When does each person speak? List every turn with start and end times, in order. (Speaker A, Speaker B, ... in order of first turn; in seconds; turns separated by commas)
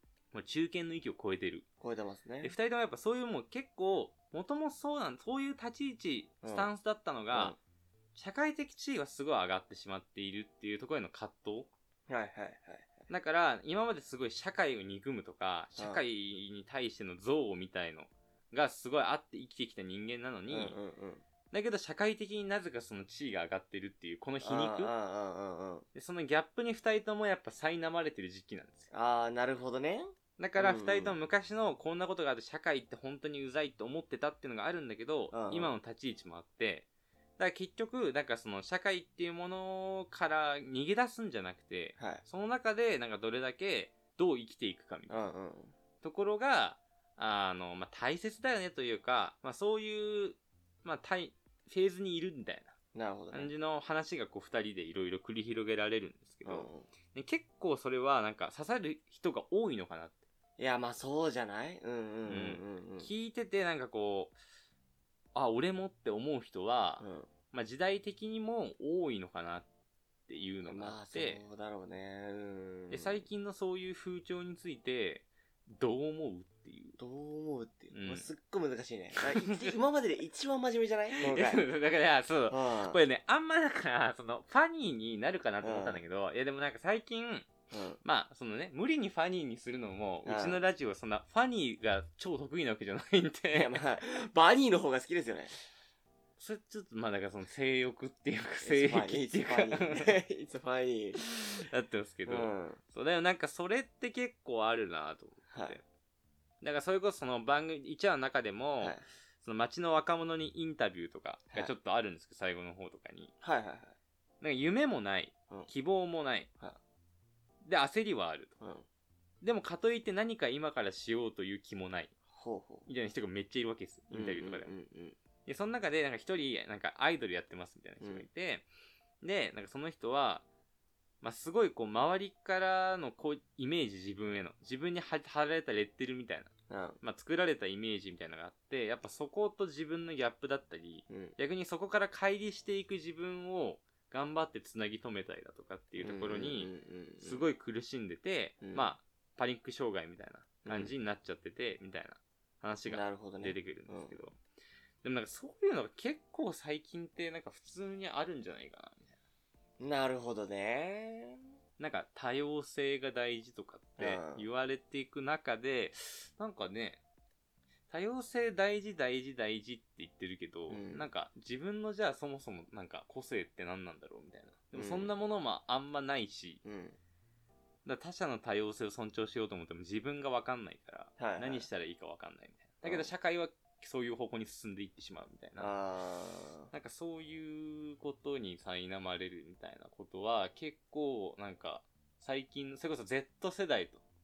Speaker A: 0.3-1.7, Speaker B: 1.8-2.5, Speaker A: 2.4-7.6, Speaker B: 6.4-6.7, Speaker B: 7.3-7.6, Speaker A: 8.2-11.7, Speaker B: 12.1-13.1, Speaker A: 13.1-20.8, Speaker B: 20.5-21.2, Speaker A: 21.5-24.9, Speaker B: 24.4-25.9, Speaker A: 25.9-28.9, Speaker B: 28.9-31.2, Speaker A: 30.4-36.9, Speaker B: 35.3-35.8, Speaker A: 37.4-45.3, Speaker B: 42.0-42.2, Speaker B: 45.1-45.7, Speaker A: 46.0-52.8, Speaker B: 52.9-53.5, Speaker A: 53.3-60.2, Speaker B: 56.5-56.9, Speaker B: 60.6-63.1, Speaker A: 62.3-64.4, Speaker A: 65.3-69.7, Speaker B: 67.0-67.3, Speaker A: 70.3-71.4, Speaker B: 70.7-73.3, Speaker A: 72.9-77.0, Speaker B: 77.0-81.7, Speaker A: 77.9-78.3, Speaker A: 79.2-79.8, Speaker A: 81.2-94.0, Speaker B: 82.5-83.0, Speaker B: 85.6-86.0, Speaker B: 87.7-88.0, Speaker B: 90.2-90.6, Speaker B: 93.5-95.5, Speaker A: 96.4-100.2, Speaker B: 98.6-101.2, Speaker A: 101.2-105.8, Speaker B: 102.3-102.8, Speaker B: 105.5-105.8, Speaker A: 106.6-113.3, Speaker B: 113.4-114.0, Speaker A: 114.4-116.5, Speaker A: 117.6-118.6, Speaker B: 118.6-118.9, Speaker A: 119.4-122.1, Speaker B: 122.3-122.9, Speaker A: 122.9-124.7, Speaker B: 124.1-125.2, Speaker A: 125.5-128.7, Speaker B: 128.0-128.3, Speaker A: 129.2-130.4, Speaker A: 131.2-154.4, Speaker B: 136.7-137.0, Speaker B: 141.1-141.4, Speaker B: 146.0-147.4, Speaker B: 148.6-148.9, Speaker B: 150.7-150.9, Speaker B: 152.9-154.2, Speaker A: 155.0-159.2, Speaker B: 159.8-161.4, Speaker A: 161.8-167.0, Speaker B: 164.0-164.5, Speaker A: 167.9-176.6, Speaker B: 170.7-171.1, Speaker B: 174.7-175.1, Speaker B: 176.7-177.0, Speaker A: 177.8-185.7, Speaker B: 181.2-181.7, Speaker B: 182.8-183.1, Speaker B: 185.6-186.7, Speaker A: 186.7-194.0